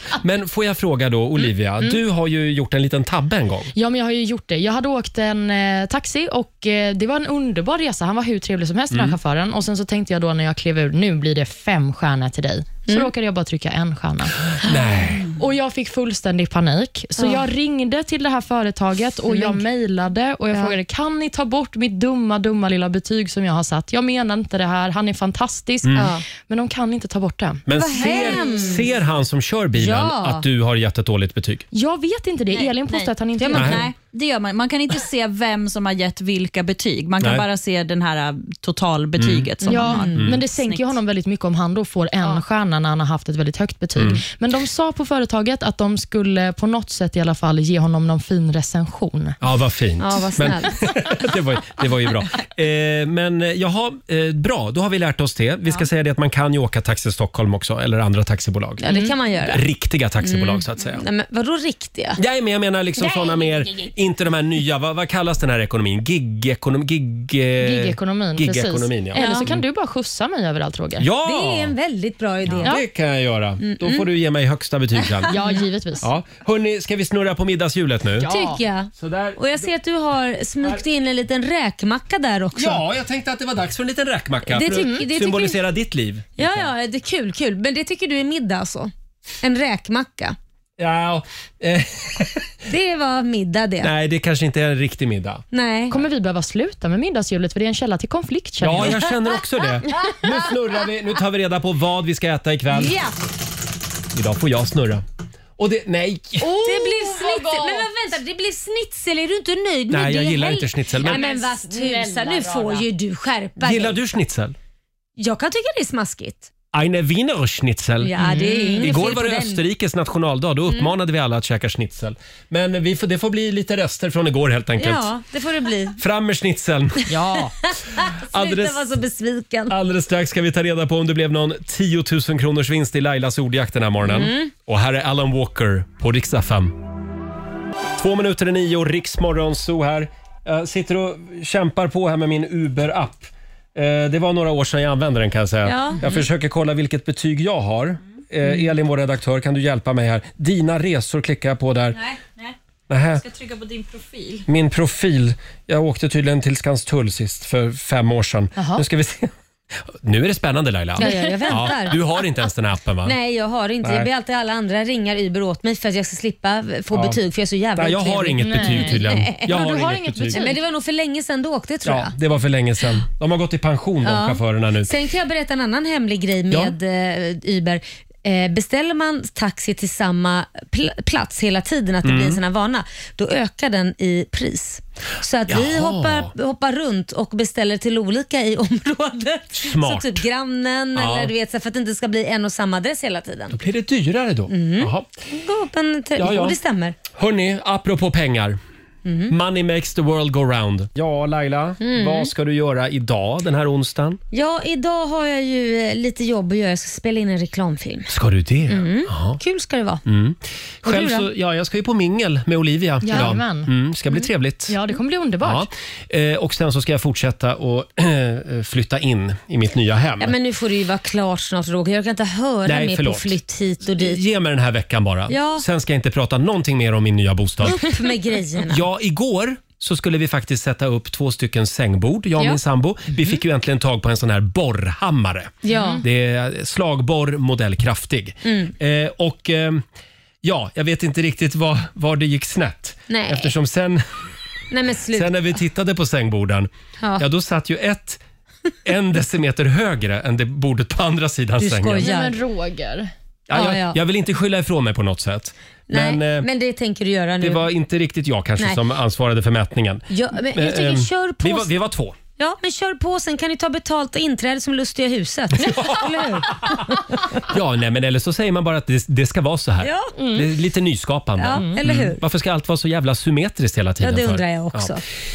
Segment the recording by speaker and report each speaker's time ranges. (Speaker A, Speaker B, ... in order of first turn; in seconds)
Speaker A: 0.2-3.7, 8.9-9.2, 14.6-15.3, 25.8-26.1, 27.7-31.6, 33.5-33.8, 39.2-39.5, 40.1-40.4, 44.0-44.2, 49.4-58.8, 59.5-61.0, 62.2-69.6, 71.0-71.7, 72.5-75.3, 76.0-78.3, 79.0-79.7, 82.5-86.7, 90.8-92.5, 93.8-95.4, 98.6-102.9, 104.1-105.0, 105.6-106.6, 109.9-111.2, 113.6-114.5, 116.7-118.1, 118.8-125.1, 126.0-127.1, 128.3-128.8, 129.7-136.7, 138.0-152.0, 152.9-153.2, 154.5-159.3, 159.9-163.1, 163.8-164.1, 166.9-167.2, 167.8-170.4, 171.8-174.9, 182.0-182.4, 185.5-186.3, 189.5-190.2, 190.9-191.3, 193.5-195.1, 196.2-196.6, 197.1-198.6, 199.3-204.2, 208.1-209.4, 210.1-214.8, 215.4-220.3, 222.6-223.4, 224.0-228.0, 228.7-239.8, 240.4-244.0, 245.1-248.2, 248.8-252.1, 253.5-256.5, 257.4-262.2, 265.6-266.8, 267.5-275.0
Speaker B: 3.7-14.4, 15.3-28.8, 31.7-33.9, 39.7-49.4, 58.9-59.1, 67.6-71.0, 75.3-76.0, 78.2-78.6, 84.6-85.0, 95.9-99.1, 106.4-107.9, 111.0-112.8, 118.2-118.9, 127.1-127.5, 158.6-158.8, 161.0-161.7, 168.4-170.6, 213.0-213.7, 214.7-215.7, 235.7-236.0, 252.0-253.1, 270.2-270.5, 271.5-271.8
Speaker C: 17.2-17.4, 19.3-19.6, 25.9-26.2, 27.7-28.9, 29.7-30.4, 33.4-33.9, 39.6-40.2, 50.0-50.8, 58.8-59.6, 60.2-62.2, 63.1-63.4, 69.2-69.5, 71.2-72.8, 73.6-74.0, 75.3-75.6, 78.2-82.8, 84.5-85.6, 86.4-90.4, 92.7-93.9, 95.5-96.0, 102.7-103.1, 106.5-114.0, 115.2-116.5, 118.0-119.6, 124.8-126.0, 127.6-129.7, 134.0-134.5, 145.6-146.2, 161.0-161.9, 163.0-169.5, 170.3-172.1, 174.0-193.6, 194.5-196.9, 199.0-199.3, 201.8-202.3, 204.3-208.1, 208.7-210.0, 210.8-211.2, 220.2-224.2, 225.3-225.6, 227.7-228.8, 235.6-236.0, 238.4-238.7, 243.1-243.5, 244.7-245.6, 251.6-252.3, 253.5-254.0, 255.9-257.7, 260.1-261.7, 262.4-267.4, 269.8-270.1, 271.4-272.2, 274.0-275.0
Speaker D: 32.5-41.0, 151.9-152.6, 153.2-154.5